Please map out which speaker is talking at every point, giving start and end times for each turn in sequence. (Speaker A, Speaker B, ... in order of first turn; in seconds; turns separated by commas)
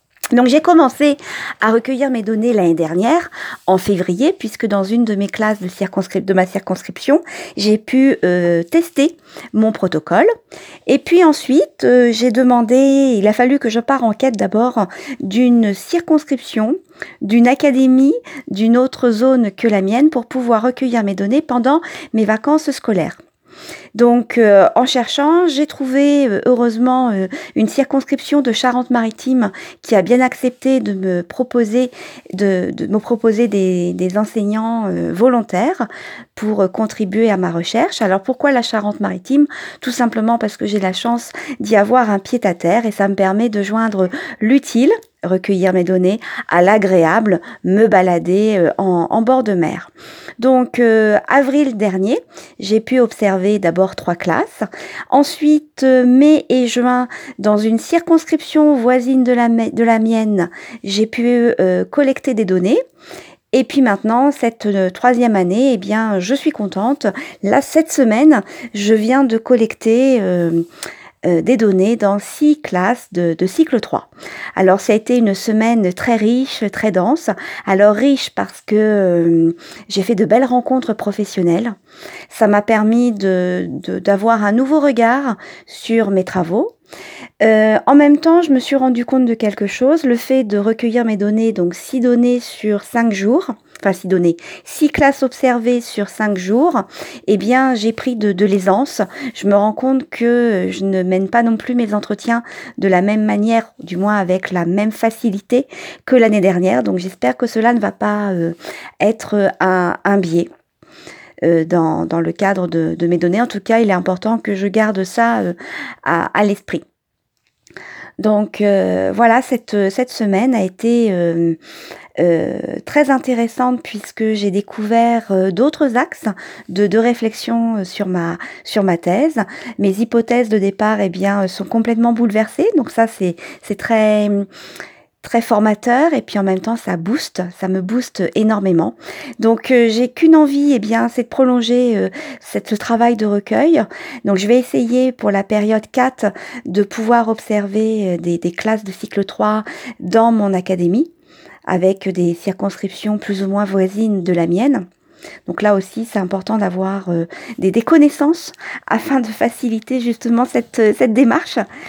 Speaker A: 0.3-10.3, Speaker A: 10.9-23.2, Speaker A: 23.9-62.8, Speaker A: 63.5-70.7, Speaker A: 71.2-81.8, Speaker A: 82.3-86.7, Speaker A: 87.4-110.5, Speaker A: 111.4-116.8, Speaker A: 118.2-121.6, Speaker A: 122.2-134.5, Speaker A: 135.2-151.1, Speaker A: 151.7-154.8, Speaker A: 155.5-161.6